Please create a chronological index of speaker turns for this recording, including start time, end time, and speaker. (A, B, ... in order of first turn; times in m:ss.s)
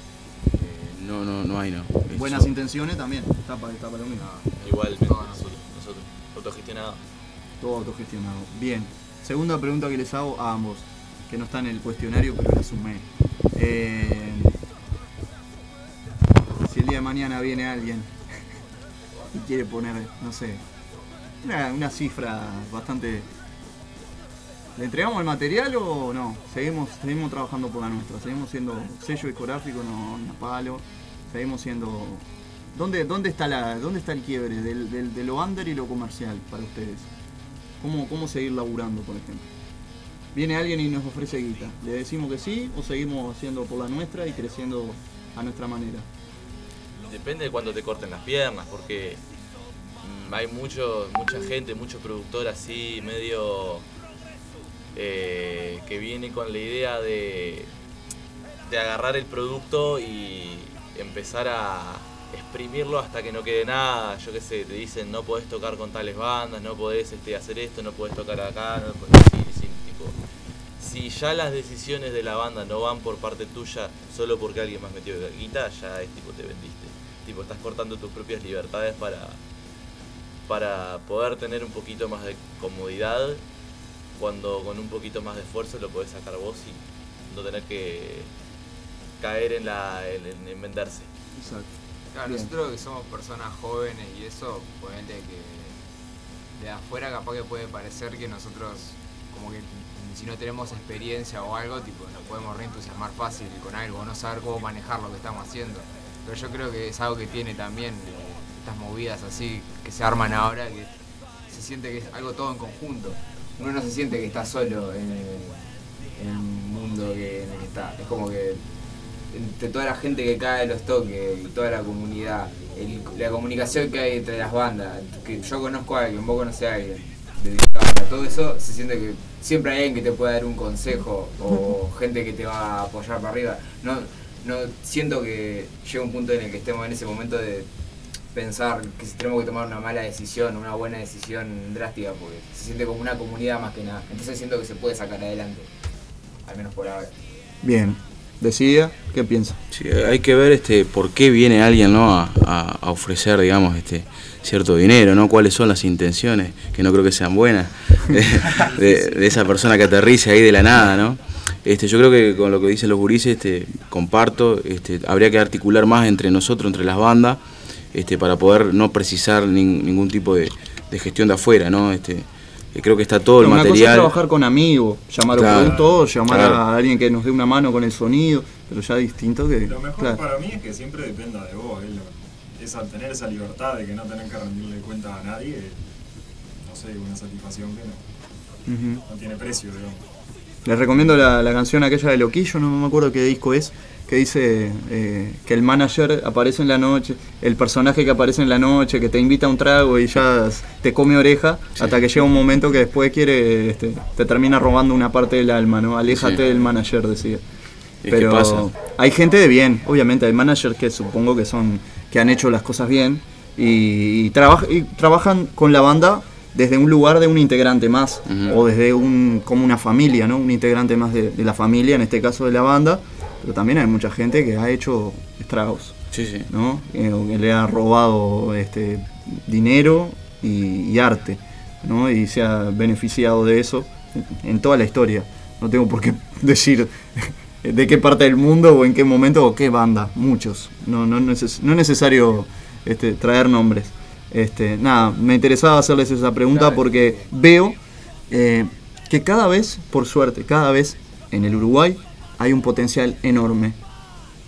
0:00.5-0:02.5 A
0:02.1-0:04.3 B
0:04.2-0:05.5 C
0:04.6-0:07.0 D
0:07.6-0:14.6 B
0:16.6-0:18.1 B
0:19.3-0:20.6 B
0:21.4-0:23.3 B
0:24.8-0:32.2 B
0:32.7-0:37.1 B
0:37.8-0:39.5 B
0:40.3-0:46.1 B
0:47.0-0:49.2 D
0:50.0-0:53.8 D
0:54.9-0:57.7 D
0:58.6-1:10.2 D
1:10.8-1:19.4 D
1:20.5-1:23.4 D
1:24.2-1:28.3 D
1:29.2-1:31.1 D
1:31.4-1:31.7 B
1:32.1-1:35.8 C
1:36.6-1:50.9 C
1:51.5-1:58.6 C
1:59.3-2:17.7 C
2:18.3-2:25.7 C
2:26.4-2:27.1 C
2:27.6-2:29.6 B
2:29.7-2:47.4 A
2:47.9-2:54.1 A
2:53.4-3:00.2 B
2:55.3-2:56.6 A
2:55.5-2:56.2 E
2:59.6-3:05.8 E
3:06.6-3:08.0 E
3:08.7-3:09.0 B
3:09.1-3:10.0 E
3:10.6-3:27.4 B
3:26.1-3:26.5 A
3:28.0-3:28.7 A
3:28.1-3:46.0 B
3:38.2-3:38.6 A
3:46.1-3:46.5 A
3:46.5-4:07.8 B
4:06.5-4:07.3 C
4:08.3-4:13.8 B